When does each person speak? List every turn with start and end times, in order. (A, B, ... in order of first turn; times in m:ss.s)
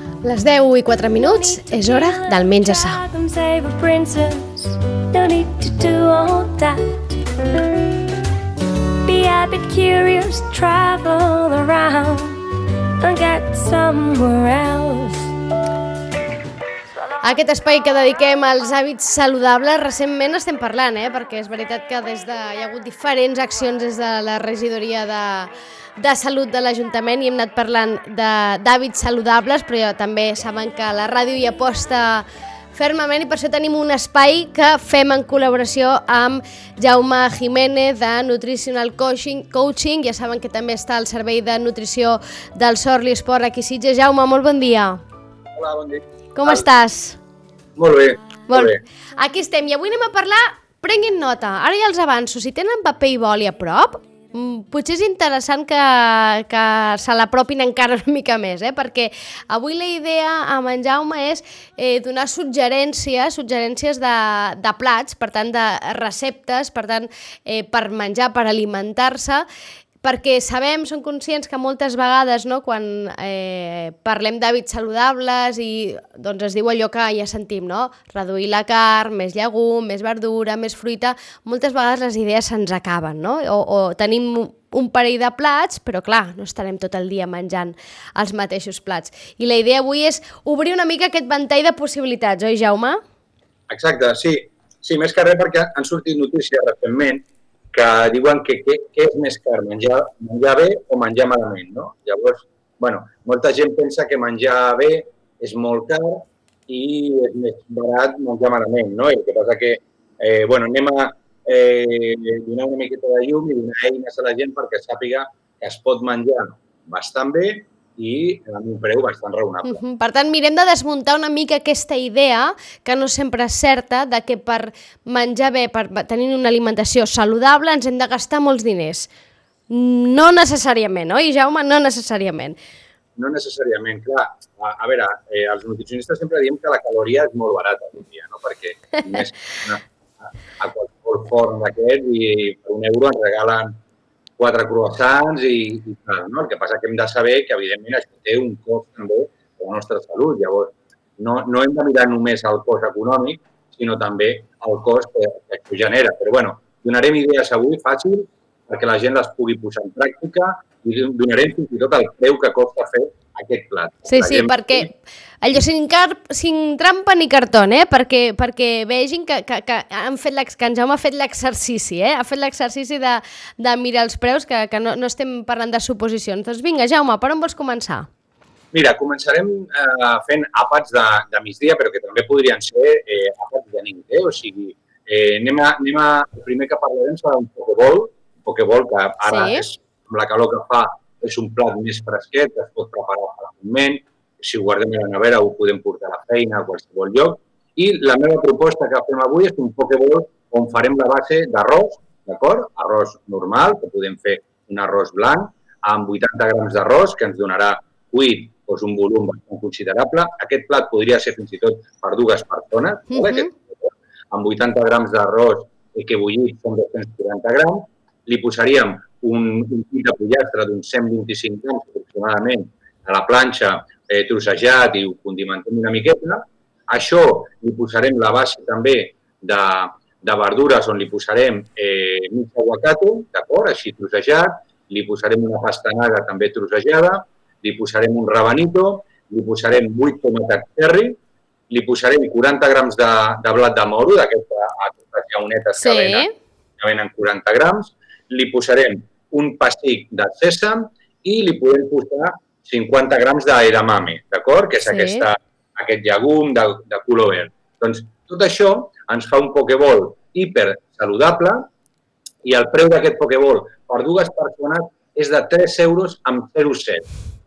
0:00.2-0:03.0 A
0:01.1-0:07.2 B
0:09.0-0:12.4 B
0:13.0-0:15.3 B
0:17.2-0:45.0 A
0:45.6-0:46.7 C
0:46.4-0:47.2 A
0:47.8-0:48.8 C
0:48.5-1:09.4 A
1:10.0-1:33.0 A
1:33.7-1:59.8 C
1:59.6-2:09.1 A
2:09.7-2:12.6 A
2:13.2-2:19.8 C
2:20.6-2:23.8 C
2:24.4-2:44.9 C
2:44.1-2:58.1 A
2:58.7-4:01.2 C
3:09.2-3:09.6 A
3:33.1-3:33.5 A
4:01.7-4:06.3 C
4:05.8-4:06.3 A
4:06.8-4:21.7 C
4:14.8-4:15.3 A
4:22.4-4:27.1 C